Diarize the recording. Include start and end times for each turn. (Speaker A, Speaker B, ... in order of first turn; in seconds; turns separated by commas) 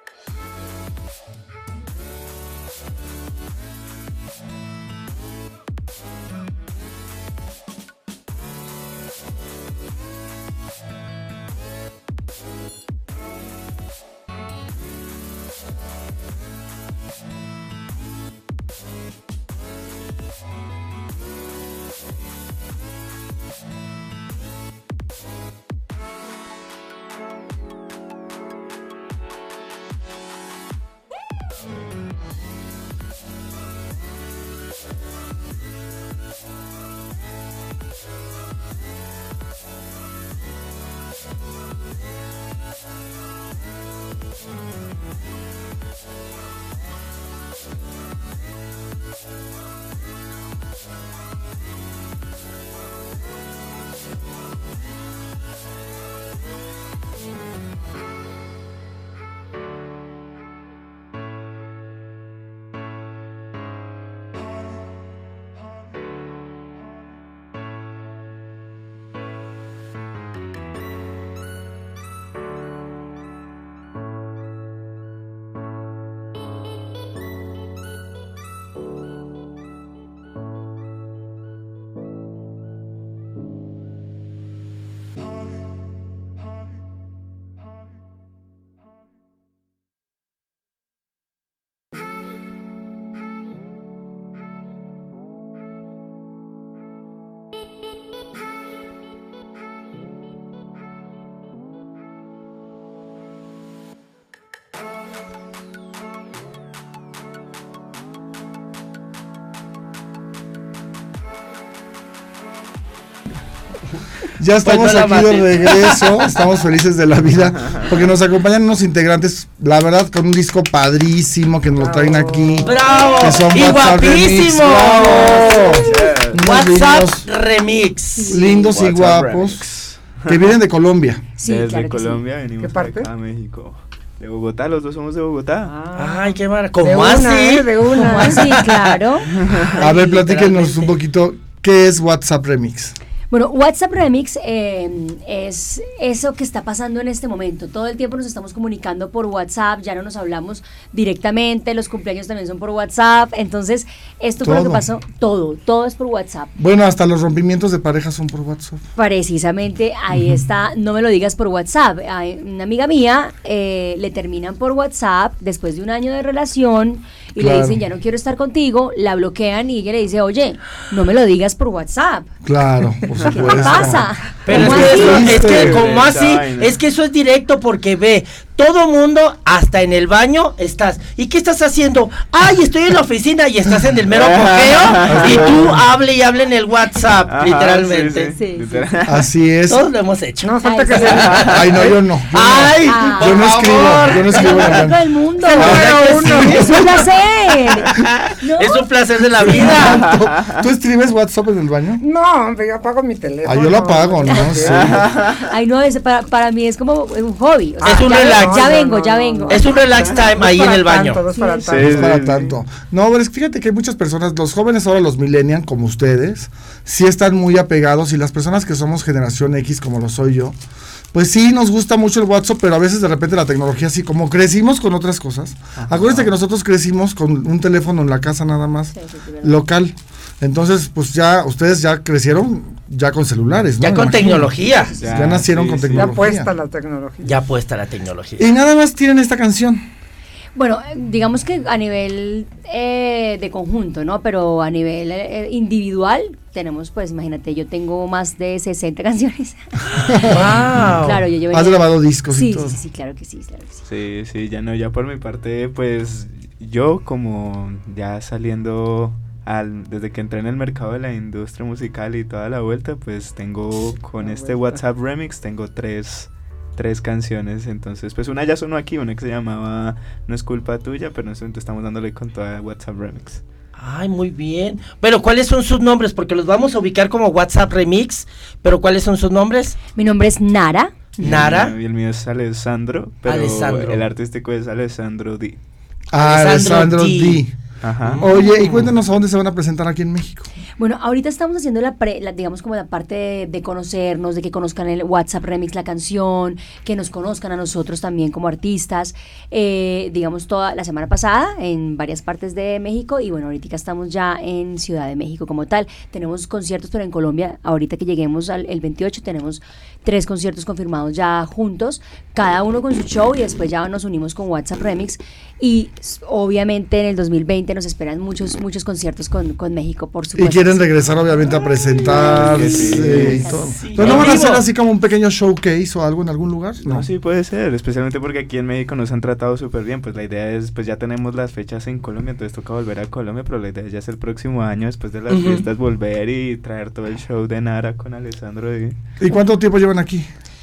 Speaker A: 114.4-127.3, Speaker B: 114.7-116.3, Speaker C: 121.8-123.0, Speaker B: 122.7-125.8, Speaker D: 125.7-126.4, Speaker B: 126.4-128.3, Speaker E: 128.2-128.8, Speaker A: 128.3-129.7, Speaker D: 128.5-130.4, Speaker A: 130.3-131.3, Speaker E: 131.4-132.2, Speaker D: 131.4-135.8, Speaker C: 132.6-133.1, Speaker C: 135.6-138.7, Speaker B: 136.0-138.9, Speaker E: 137.9-139.3, Speaker D: 139.4-139.7, Speaker B: 139.4-140.9, Speaker A: 139.8-143.0, Speaker E: 143.3-156.5, Speaker A: 154.4-154.8, Speaker A: 156.6-158.8, Speaker E: 159.0-172.3, Speaker A: 160.1-160.4, Speaker A: 167.4-167.8, Speaker A: 172.4-175.8, Speaker E: 173.2-175.4, Speaker B: 174.4-188.4, Speaker D: 174.5-176.8, Speaker D: 184.1-185.8, Speaker A: 185.1-185.8, Speaker D: 187.3-189.3, Speaker E: 188.4-188.9, Speaker A: 189.1-189.9, Speaker B: 189.7-194.9, Speaker C: 190.4-191.9, Speaker E: 190.6-191.3, Speaker A: 191.4-195.0, Speaker E: 192.8-193.5, Speaker E: 194.2-198.9, Speaker B: 195.4-196.9, Speaker C: 195.5-196.8, Speaker A: 195.6-196.9, Speaker B: 197.8-200.1, Speaker A: 199.4-202.0, Speaker D: 200.1-200.6, Speaker C: 202.0-205.1, Speaker A: 203.4-205.1, Speaker E: 204.3-204.6, Speaker D: 204.7-205.5, Speaker E: 205.3-209.8, Speaker C: 207.8-212.2, Speaker B: 207.8-208.8, Speaker B: 209.5-211.2, Speaker E: 211.3-211.7, Speaker D: 211.6-212.6, Speaker A: 211.7-220.6, Speaker A: 221.1-236.5, Speaker D: 225.8-226.3, Speaker E: 229.0-229.6, Speaker B: 233.8-234.9, Speaker D: 235.0-236.2, Speaker C: 235.9-237.4, Speaker B: 237.2-238.4, Speaker A: 238.4-239.8, Speaker E: 240.6-250.3, Speaker A: 250.1-250.4, Speaker B: 250.1-251.2, Speaker E: 251.0-253.8, Speaker A: 251.5-252.8, Speaker D: 253.9-273.4, Speaker C: 264.2-264.8, Speaker B: 273.8-279.8, Speaker E: 279.9-281.1, Speaker B: 281.2-281.8, Speaker D: 281.2-285.6, Speaker B: 283.2-284.0, Speaker A: 286.1-287.5, Speaker B: 286.2-287.4, Speaker D: 287.8-288.8, Speaker A: 288.2-290.5, Speaker E: 290.8-320.9, Speaker A: 320.4-327.1, Speaker D: 322.2-324.3, Speaker E: 322.3-323.8, Speaker B: 323.8-324.6, Speaker D: 326.8-339.0, Speaker B: 335.3-335.6, Speaker A: 339.2-340.3